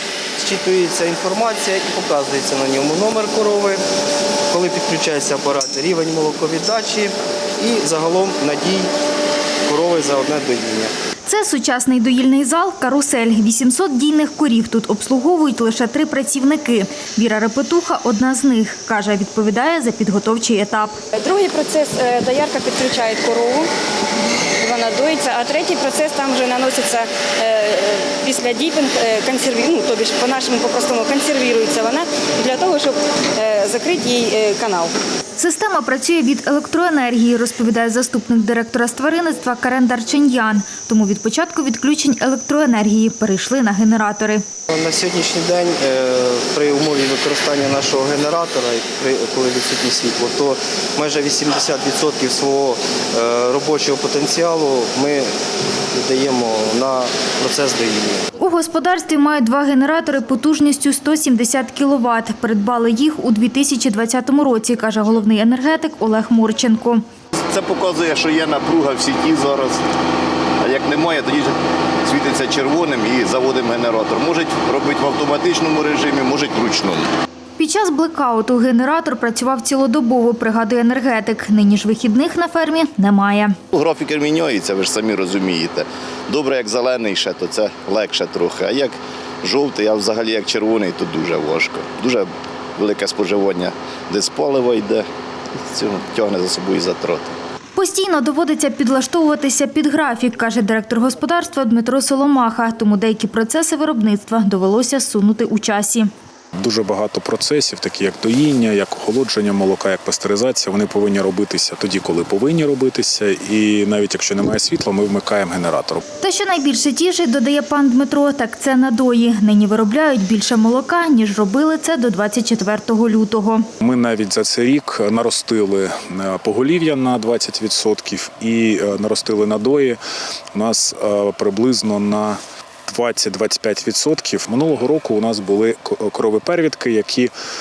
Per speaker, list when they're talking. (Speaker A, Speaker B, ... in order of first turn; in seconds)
Speaker A: 0.4-3.8, 4.5-8.9, 9.6-10.9, 44.7-55.3, 55.9-58.2
Speaker B: 11.3-20.9, 35.4-44.4, 58.4-67.0, 77.6-83.5, 97.8-106.1, 116.2-123.7
Speaker C: 21.2-23.7, 24.6-34.9
Speaker D: 67.5-69.8, 70.6-71.5, 72.0-77.1, 83.7-92.3, 92.8-97.3
Speaker E: 106.6-116.0, 123.8-130.0, 130.5-137.3